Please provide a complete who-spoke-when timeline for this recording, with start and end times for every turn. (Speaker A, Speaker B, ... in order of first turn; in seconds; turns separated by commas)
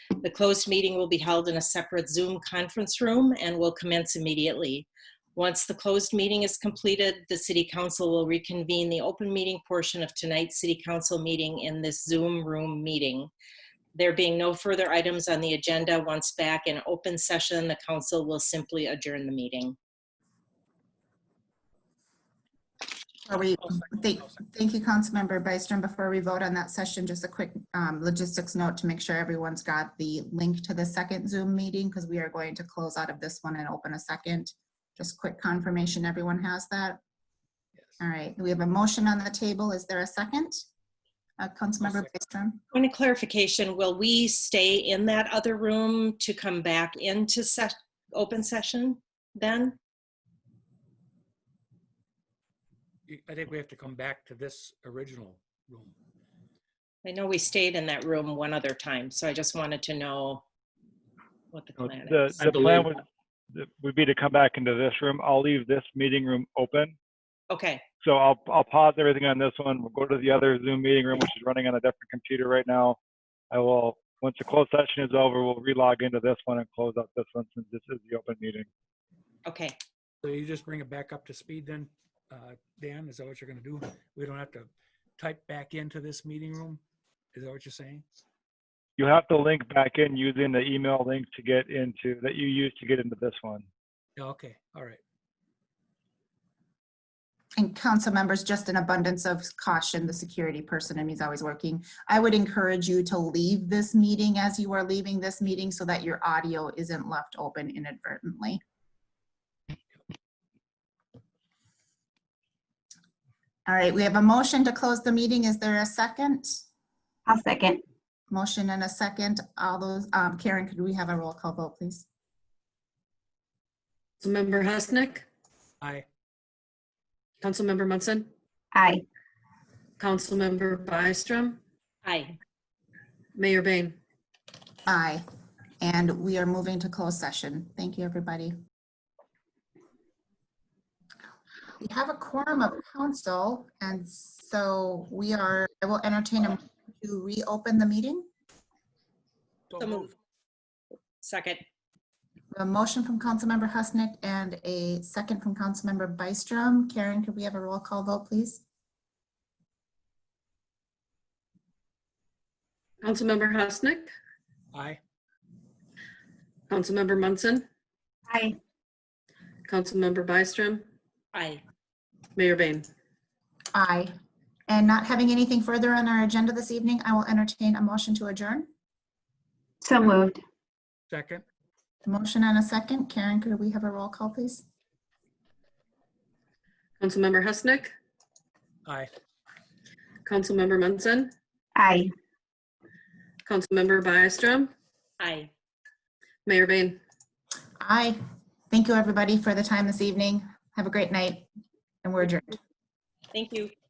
Speaker A: 0.2-13.3, Speaker A: 13.9-19.8, Speaker B: 23.3-37.0, Speaker B: 38.0-40.6, Speaker B: 41.4-42.6, Speaker A: 42.7-49.8, Speaker C: 53.1-55.9, Speaker A: 57.0-60.4, Speaker A: 61.5-62.4, Speaker D: 61.8-63.0, Speaker C: 62.4-62.9, Speaker D: 63.5-66.9, Speaker A: 67.5-67.8, Speaker D: 68.0-73.0, Speaker D: 73.5-78.7, Speaker A: 79.5-79.7, Speaker C: 80.2-86.8, Speaker C: 87.3-88.1, Speaker D: 89.0-93.7, Speaker C: 94.2-95.0, Speaker B: 97.6-108.6, Speaker B: 113.7-116.6, Speaker E: 117.3-117.8, Speaker B: 118.3-122.1, Speaker F: 124.2-125.3, Speaker F: 127.4-128.3, Speaker E: 128.7-129.0, Speaker F: 130.0-131.6, Speaker A: 132.0-132.4, Speaker F: 133.3-134.0, Speaker B: 134.9-135.2, Speaker B: 135.8-138.6, Speaker B: 141.8-148.3, Speaker C: 149.7-150.1, Speaker A: 149.8-150.1, Speaker A: 151.2-151.6, Speaker B: 152.5-158.6, Speaker F: 163.0-164.1, Speaker C: 164.7-165.0, Speaker F: 166.7-167.7, Speaker E: 168.3-168.6, Speaker F: 169.7-170.8, Speaker A: 171.3-171.6, Speaker F: 172.4-172.9, Speaker B: 173.7-174.1, Speaker B: 174.7-178.7, Speaker E: 179.8-180.4, Speaker C: 181.1-181.4, Speaker B: 182.1-184.7, Speaker F: 187.0-187.9, Speaker C: 188.9-189.1, Speaker F: 190.2-191.3, Speaker E: 191.8-192.1, Speaker F: 193.4-194.7, Speaker A: 195.2-195.5, Speaker F: 196.5-197.0, Speaker B: 197.8-198.2, Speaker B: 198.7-201.5, Speaker B: 202.0-202.6, Speaker A: 203.3-203.7